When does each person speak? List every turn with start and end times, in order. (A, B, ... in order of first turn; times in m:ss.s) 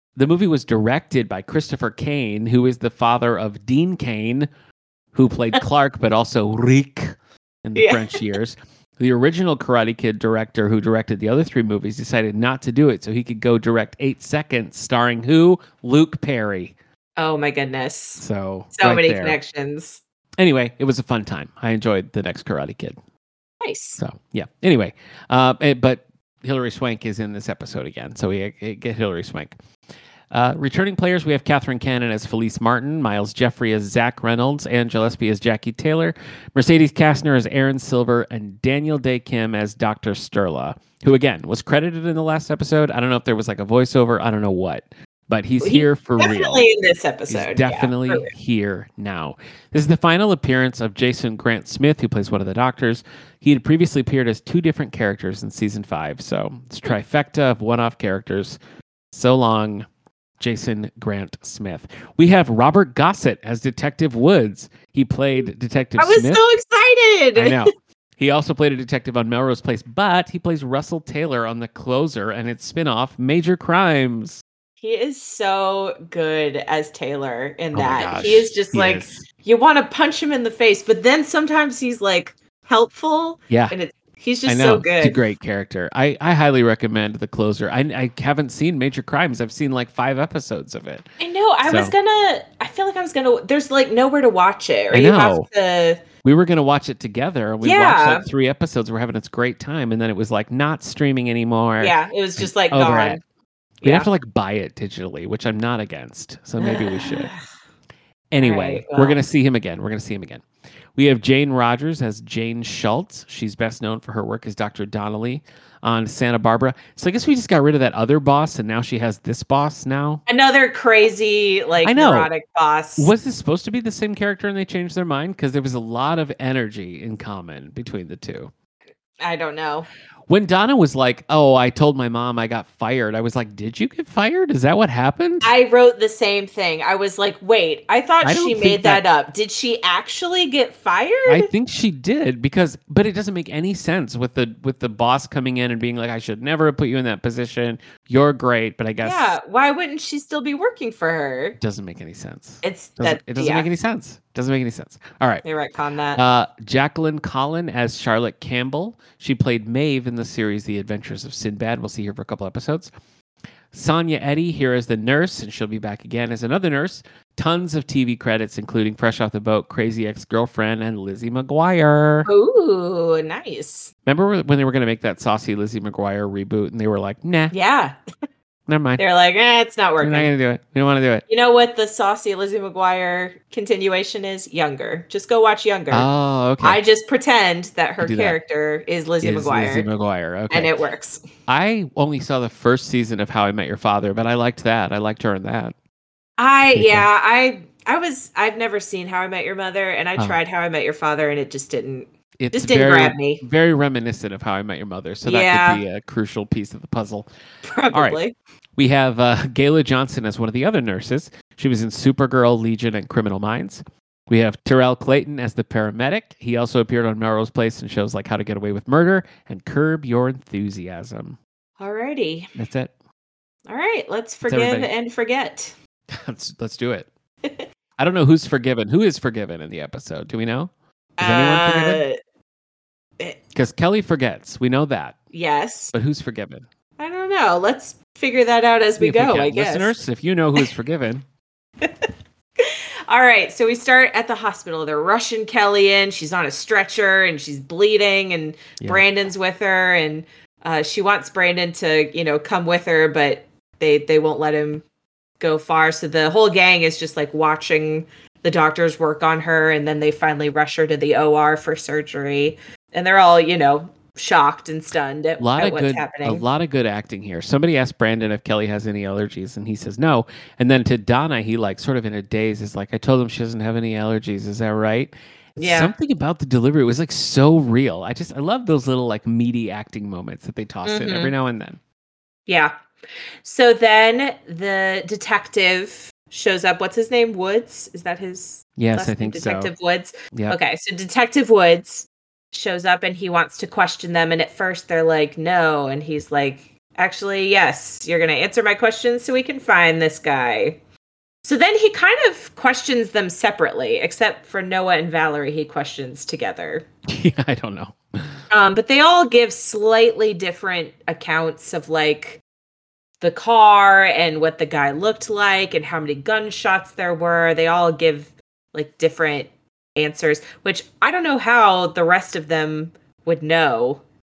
0:00.2-0:04.5 A
0:05.1-0:16.8 A
0:07.8-0:08.2 B
0:17.2-0:20.0 B
0:18.2-0:19.4 A
0:20.4-0:23.0 A
0:23.6-0:24.0 B
0:24.0-0:29.6 A
0:30.3-0:46.6 A
0:45.6-0:48.3 B
0:47.3-0:58.6 A
0:59.1-0:59.9 A
1:00.4-1:06.4 A
1:06.0-1:07.7 B
1:07.4-1:14.4 A
1:14.8-1:25.2 B
1:17.7-1:19.2 A
1:24.5-1:31.1 A
1:31.2-1:36.0 B
1:31.6-1:31.9 A
1:34.9-1:35.5 A
1:36.2-1:43.2 A
1:37.6-1:38.3 B
1:41.8-1:43.2 B
1:43.8-1:44.1 B
1:43.8-1:47.3 A
1:46.6-1:47.4 B
1:48.3-1:50.4 A
1:48.4-1:49.2 B
1:51.0-2:00.2 A
2:00.3-2:03.1 B
2:01.8-2:02.3 A
2:03.0-2:08.5 A
2:09.2-2:09.9 B
2:10.3-2:15.5 A
2:15.4-2:21.5 B
2:18.2-2:19.0 A
2:21.3-2:29.3 A
2:29.0-2:31.6 B
2:31.6-2:35.4 A
2:32.6-2:33.7 B
2:35.4-2:36.2 B
2:36.2-2:42.9 A
2:43.7-2:52.3 A
2:52.3-2:53.9 B
2:54.1-2:57.5 A
2:57.5-2:58.0 B
2:58.7-2:59.0 A
2:59.0-3:00.3 B
3:00.0-3:01.2 A
3:01.3-3:06.1 B
3:05.9-3:06.8 A
3:06.6-3:09.9 B
3:08.0-3:08.4 A
3:09.2-3:10.8 A
3:10.5-3:11.2 B
3:11.5-3:15.7 A
3:16.4-3:23.4 B
3:16.7-3:17.1 A
3:22.4-3:27.3 A
3:25.2-3:25.8 B
3:27.6-3:28.4 B
3:27.9-3:28.2 A
3:28.8-3:41.4 A
3:41.8-3:42.5 B
3:42.6-3:42.9 A
3:43.7-3:45.7 B
3:44.5-3:44.9 A
3:46.1-3:47.1 A
3:48.0-3:52.0 A
3:51.2-3:52.2 B
3:53.5-3:55.2 A
3:55.3-3:55.9 B
3:55.9-3:56.6 A
3:57.0-4:00.0 B
3:59.0-4:01.2 A
4:01.8-4:14.8 B
4:15.4-4:26.4 B
4:25.4-4:41.8 A
4:35.6-4:35.9 B
4:40.8-4:41.3 B
4:42.5-4:42.7 B
4:43.4-5:00.8 B
4:48.8-4:49.7 A
4:50.3-4:50.6 A
5:01.4-5:06.9 B
5:07.1-5:08.4 A
5:08.5-5:12.4 B
5:13.2-5:24.0 B